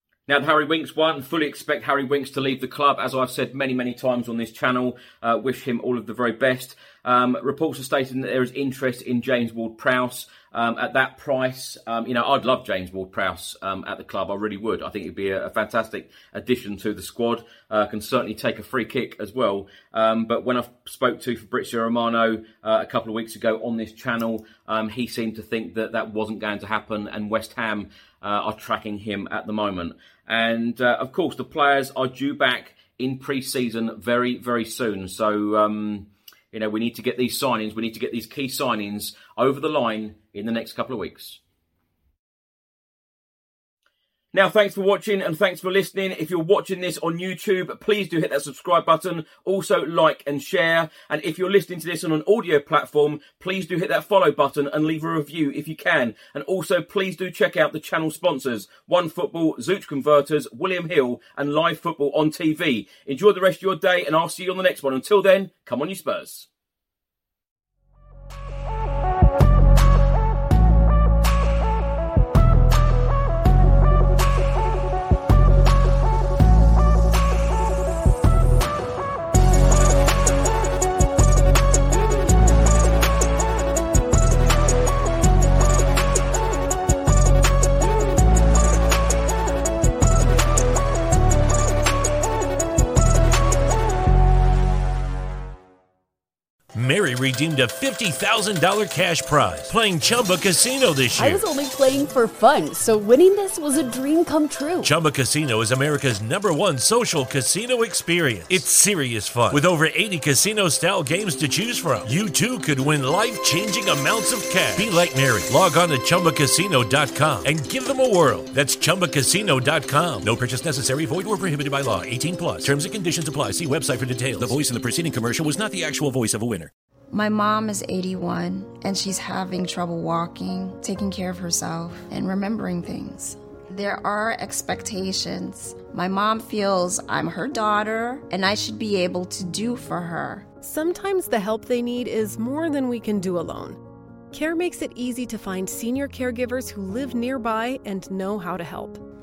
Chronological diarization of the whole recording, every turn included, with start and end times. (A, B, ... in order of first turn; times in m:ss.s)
0:00.3-0:41.4 A
0:44.3-1:06.5 A
1:36.8-1:41.4 B
1:41.2-1:44.9 C
1:44.8-2:06.7 B
2:07.1-2:20.5 D
2:20.6-2:23.8 E
2:24.3-2:29.0 E